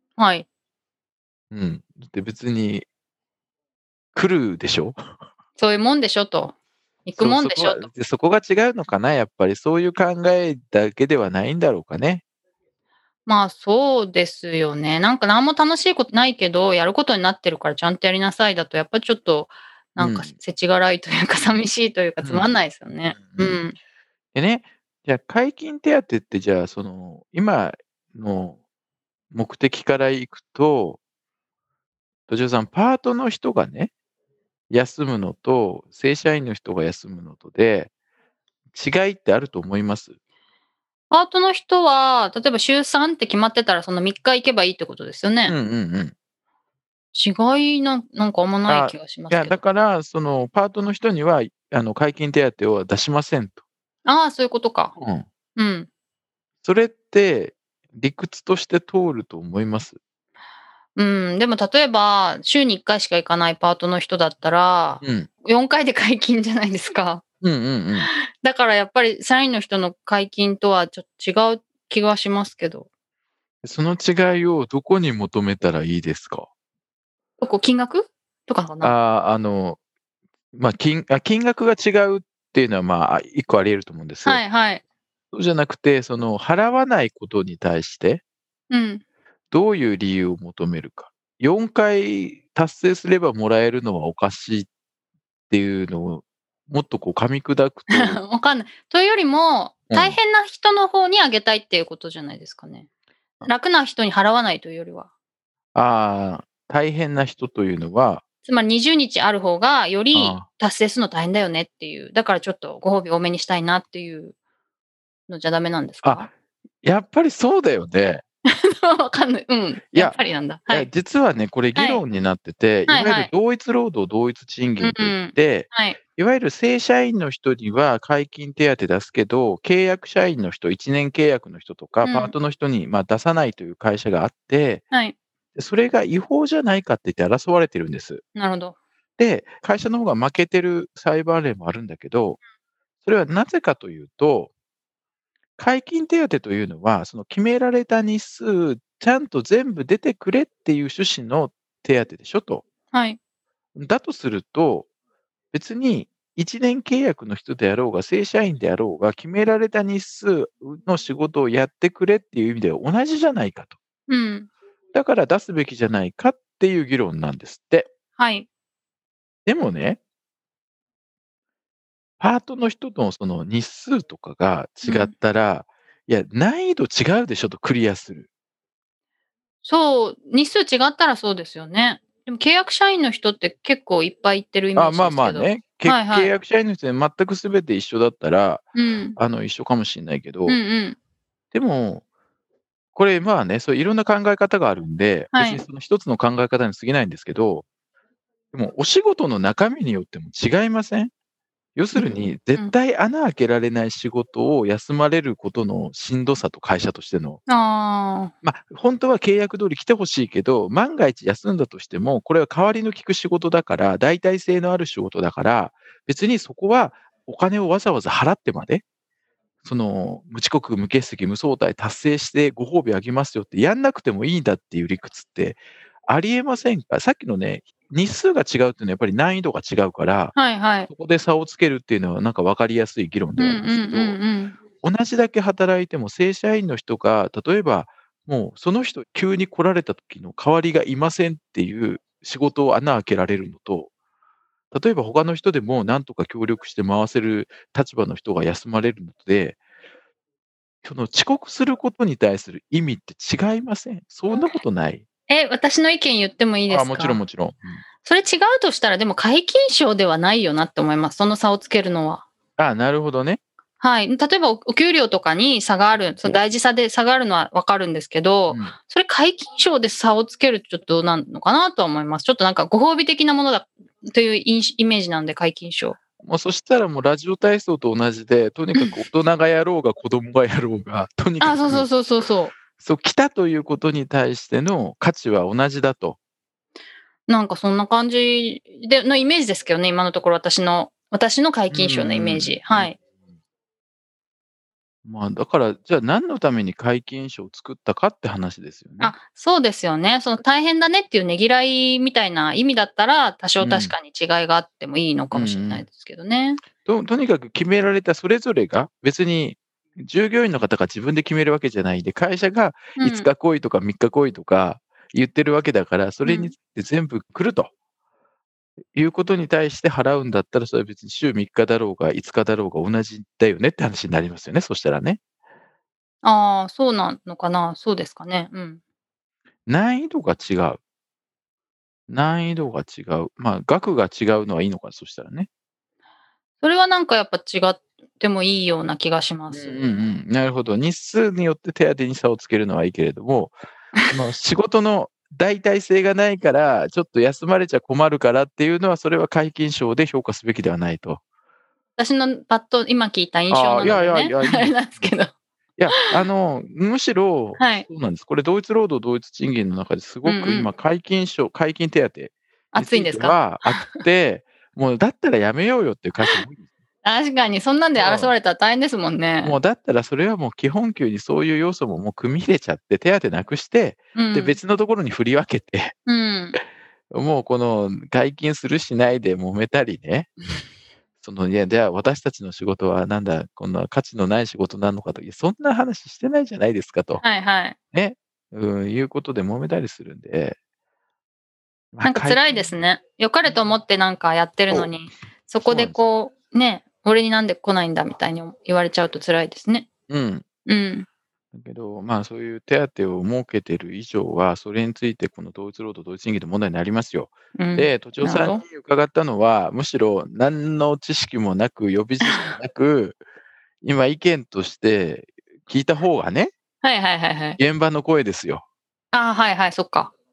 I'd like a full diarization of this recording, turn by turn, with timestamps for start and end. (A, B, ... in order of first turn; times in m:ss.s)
0:00.2-0:00.4 A
0:01.5-0:02.8 B
0:04.1-0:05.0 B
0:05.6-0:07.9 A
0:07.2-0:12.2 B
0:13.2-0:23.8 A
0:20.0-0:20.3 B
0:22.2-0:22.6 B
0:23.2-0:23.6 B
0:24.3-0:28.6 B
0:29.3-0:31.0 B
0:32.3-0:33.9 B
0:34.7-0:37.9 B
0:38.7-0:40.1 B
0:41.1-0:45.6 A
0:45.5-0:46.1 B
0:47.1-0:49.6 A
0:48.7-0:53.6 B
0:54.0-0:54.9 A
0:55.0-0:55.2 B
0:55.6-0:55.9 A
0:56.6-1:00.0 B
1:01.0-1:07.2 A
1:05.0-1:05.3 B
1:07.4-1:08.1 B
1:08.4-1:12.9 A
1:13.6-1:16.5 B
1:17.4-1:18.9 A
1:18.8-1:19.8 B
1:20.5-1:24.4 B
1:24.2-1:24.8 A
1:25.3-1:28.2 B
1:28.7-1:29.0 A
1:29.5-1:34.7 B
1:35.5-1:38.2 B
1:37.9-1:42.9 A
1:39.9-1:40.2 B
1:43.4-1:45.1 A
1:45.8-1:48.2 B
1:48.4-1:54.3 A
1:50.1-1:50.4 B
1:55.3-1:56.3 A
1:56.0-1:56.3 B
1:56.8-1:58.2 B
1:58.5-2:00.9 A
1:59.9-2:14.8 B
2:01.8-2:02.0 A
2:02.9-2:03.3 A
2:04.8-2:06.0 A
2:12.0-2:12.3 A
2:15.5-2:18.2 B
2:18.4-2:18.8 A
2:19.2-2:22.4 B
2:23.0-2:24.5 B
2:25.6-2:32.6 B
2:32.9-2:33.2 A
2:33.8-2:34.9 B
2:35.5-2:43.8 B
2:44.1-2:44.5 A
2:44.9-2:47.9 B
2:48.2-2:48.5 A
2:49.5-2:50.0 B
2:52.2-2:58.3 B
2:54.8-2:55.1 A
2:59.6-3:06.3 A
3:04.8-3:08.6 B
3:08.8-3:09.2 A
3:09.2-3:10.6 B
3:10.5-3:11.0 A
3:11.5-3:12.0 B
3:12.9-3:17.6 B
3:15.3-3:15.6 A
3:18.5-3:21.1 B
3:21.8-3:27.4 B
3:21.9-3:22.7 A
3:27.5-3:28.3 A
3:28.4-3:38.8 B
3:39.6-3:50.4 B
3:50.4-3:50.9 A
3:50.9-3:54.2 B
3:53.4-3:54.6 A
3:54.8-4:03.9 B
4:04.7-4:09.6 B
4:10.8-4:15.0 B
4:15.3-4:17.2 A
4:16.7-4:17.8 B
4:18.0-4:22.2 A
4:22.6-4:23.4 B
4:23.8-4:36.0 A
4:28.5-4:28.8 B
4:36.2-4:41.9 B
4:41.4-4:42.5 A
4:42.7-4:46.2 B
4:47.3-4:53.0 A
4:51.7-4:52.9 B
4:55.0-4:59.1 B
4:59.0-5:06.6 A
5:03.6-5:03.9 B
5:05.3-5:05.8 B
5:06.8-5:17.7 B
5:13.0-5:13.3 A
5:16.2-5:16.5 A
5:18.9-5:25.2 B
5:26.2-5:28.8 A
5:29.7-5:30.8 B
5:32.1-5:35.5 B
5:36.6-5:39.9 A
5:39.5-5:43.5 B
5:44.1-5:51.2 B
5:52.0-5:55.3 A
5:53.5-5:54.9 B
5:55.8-6:06.7 B
5:57.6-5:57.9 A
6:00.2-6:00.7 A
6:02.7-6:04.0 A
6:07.0-6:09.6 A
6:07.9-6:08.3 B
6:09.4-6:15.9 B
6:14.1-6:14.6 A
6:16.1-6:16.6 A
6:17.1-6:20.3 B
6:21.2-6:27.2 B
6:27.2-6:27.8 A
6:27.9-6:30.6 B
6:31.9-6:32.7 B
6:32.0-6:39.9 A
6:35.6-6:36.0 B
6:40.1-6:40.4 B
6:40.6-6:41.0 A
6:41.5-6:53.2 B
6:47.6-6:48.6 A
6:52.2-6:52.5 A
6:53.8-6:56.5 B
6:56.8-6:57.6 A
6:57.6-6:58.6 B
6:59.1-7:00.1 A